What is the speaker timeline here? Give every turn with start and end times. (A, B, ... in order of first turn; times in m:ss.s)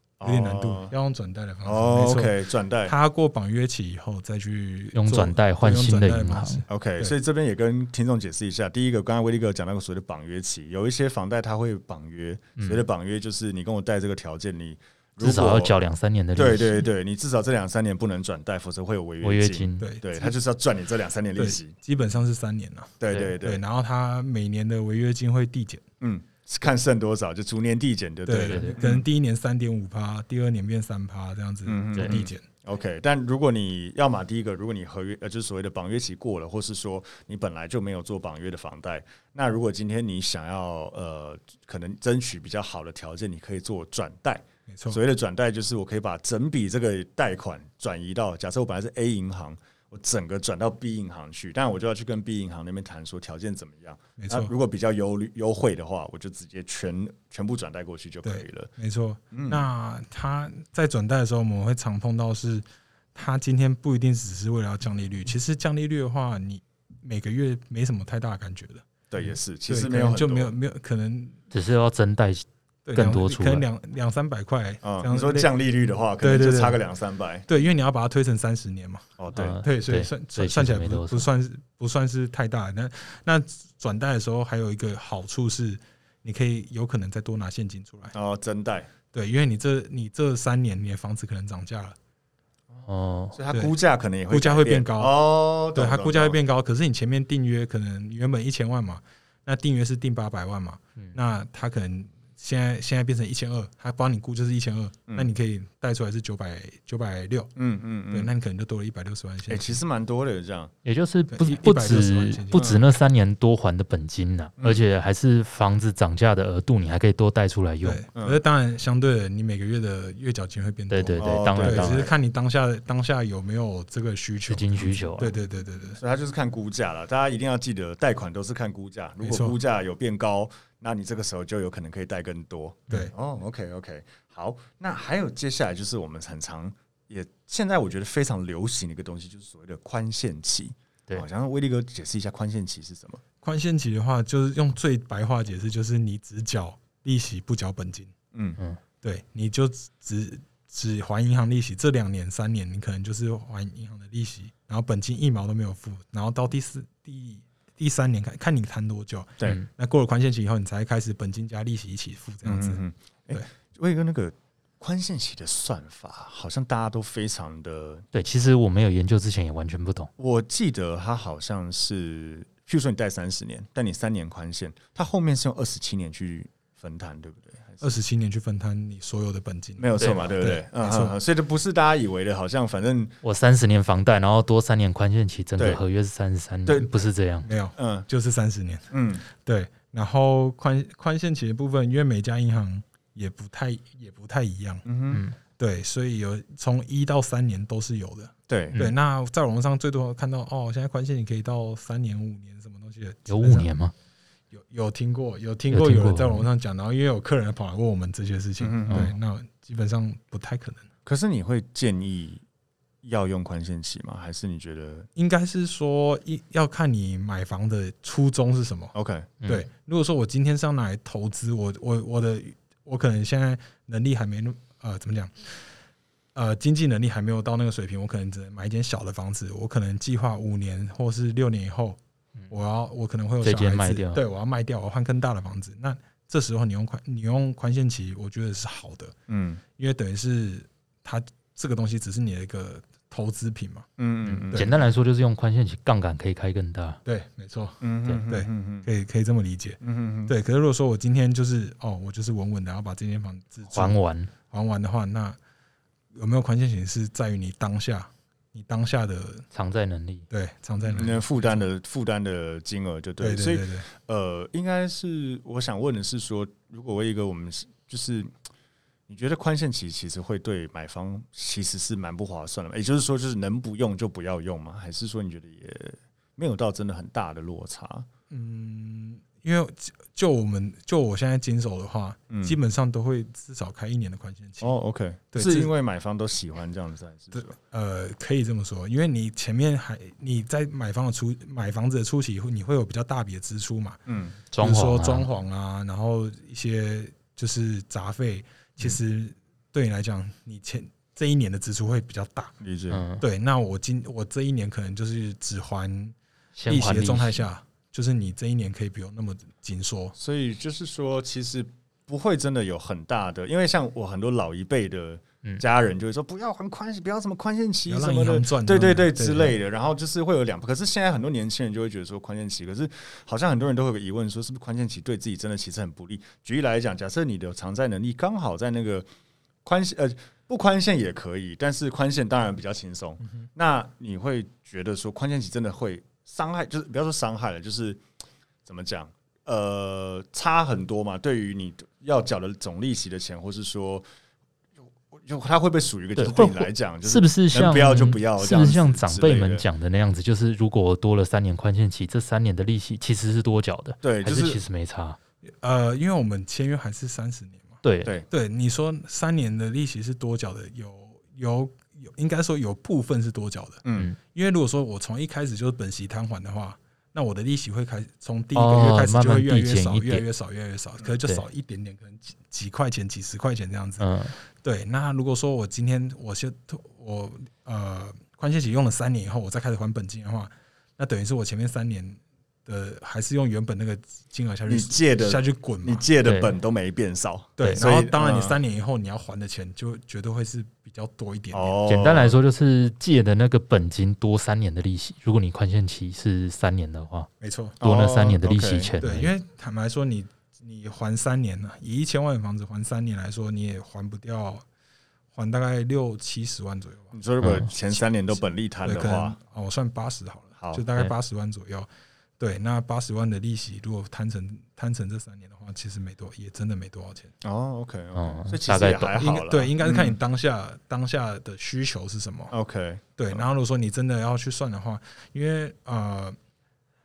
0:00.2-0:00.9 A
0:00.2-0:07.1 B
0:01.6-0:02.9 A
0:04.9-0:06.6 C
0:06.7-0:15.7 A
0:12.6-0:12.8 C
0:15.2-0:16.9 C
0:16.4-0:21.7 A
0:19.2-0:19.9 C
0:19.8-0:20.3 B
0:21.4-0:25.8 B
0:23.0-0:23.6 A
0:26.0-0:29.0 A
0:28.2-0:32.4 B
0:28.3-0:28.8 C
0:31.6-0:58.7 A
0:32.0-0:32.2 C
0:44.7-0:45.0 B
0:54.2-0:54.5 B
0:58.2-1:08.9 B
0:59.3-0:59.6 A
1:09.1-1:10.5 A
1:09.7-1:11.4 B
1:11.5-1:13.6 C
1:12.8-1:15.5 B
1:14.8-1:17.4 A
1:16.2-1:16.8 B
1:17.5-1:19.0 B
1:19.2-1:19.6 A
1:19.3-1:21.3 C
1:19.6-1:28.1 B
1:28.1-1:28.9 A
1:29.1-1:32.0 B
1:32.7-1:36.4 A
1:32.9-1:33.4 C
1:34.3-1:35.1 B
1:35.7-1:47.5 B
1:47.6-1:48.3 A
1:48.1-1:49.8 B
1:49.5-1:50.7 A
1:50.8-1:58.0 C
1:51.3-1:52.8 B
1:52.5-1:52.8 A
1:54.6-1:54.8 A
1:57.8-2:06.0 B
2:00.9-2:02.1 C
2:01.2-2:02.1 A
2:04.5-2:05.3 C
2:06.0-2:23.2 A
2:09.2-2:09.6 B
2:23.4-2:28.1 B
2:28.3-2:28.6 A
2:29.0-2:43.5 B
2:42.4-2:48.0 A
2:48.1-2:50.1 C
2:50.2-2:58.0 A
2:57.8-3:01.1 B
2:59.8-3:03.2 A
3:00.0-3:00.3 C
3:03.2-3:07.5 C
3:06.6-3:06.9 A
3:07.4-3:14.8 B
3:07.8-3:08.1 A
3:08.9-3:09.2 A
3:14.8-3:15.2 A
3:15.1-3:15.4 C
3:15.6-3:23.7 B
3:18.5-3:18.8 A
3:23.3-3:23.9 C
3:24.5-3:30.9 B
3:25.7-3:26.5 C
3:28.6-3:29.1 A
3:31.0-3:32.4 A
3:33.0-3:35.1 A
3:35.1-3:38.9 B
3:38.9-3:39.3 A
3:39.4-3:45.6 B
3:46.3-3:52.0 B
3:52.5-3:59.1 B
3:53.4-3:54.2 C
3:59.3-3:59.6 A
3:59.8-4:03.9 B
4:04.0-4:04.7 A
4:04.2-4:07.0 C
4:07.0-4:15.4 B
4:07.8-4:08.9 A
4:09.8-4:10.3 A
4:13.7-4:14.3 C
4:16.1-4:19.4 B
4:19.5-4:20.2 C
4:20.3-4:21.6 B
4:20.8-4:28.3 A
4:23.2-4:23.9 B
4:29.1-4:38.1 A
4:38.3-4:44.8 B
4:42.3-4:42.6 A
4:44.6-4:47.5 A
4:45.3-4:45.7 B
4:47.3-4:54.0 B
4:54.0-4:54.4 A
4:54.5-4:55.3 C
4:54.6-5:02.5 B
5:02.6-5:03.0 A
5:02.9-5:03.2 C
5:03.2-5:06.1 B
5:06.6-5:07.4 C
5:06.7-5:10.1 B
5:10.2-5:29.1 A
5:17.9-5:19.5 B
5:29.6-5:38.0 A
5:38.6-5:44.0 A
5:45.1-5:49.6 A
5:46.2-5:55.2 C
5:54.0-5:54.6 A
5:55.6-6:14.1 B
5:57.8-5:58.1 C
6:03.8-6:04.1 A
6:08.5-6:10.2 C
6:14.0-6:14.3 C
6:14.6-6:26.1 B
6:24.7-6:28.6 A
6:26.2-6:26.5 C
6:27.6-6:31.8 B
6:31.5-6:32.4 A
6:31.9-6:37.3 C
6:37.4-6:37.8 B
6:37.8-6:39.0 A
6:37.8-6:39.3 C
6:39.0-6:44.6 B
6:45.3-6:47.1 B
6:47.1-6:49.4 A
6:47.4-6:47.7 C
6:48.8-6:51.9 B
6:50.6-6:50.8 A
6:52.4-6:57.3 B
6:57.4-7:00.2 A
6:58.1-6:59.2 C
6:59.1-7:02.5 B
7:02.5-7:03.4 A
7:03.2-7:06.4 B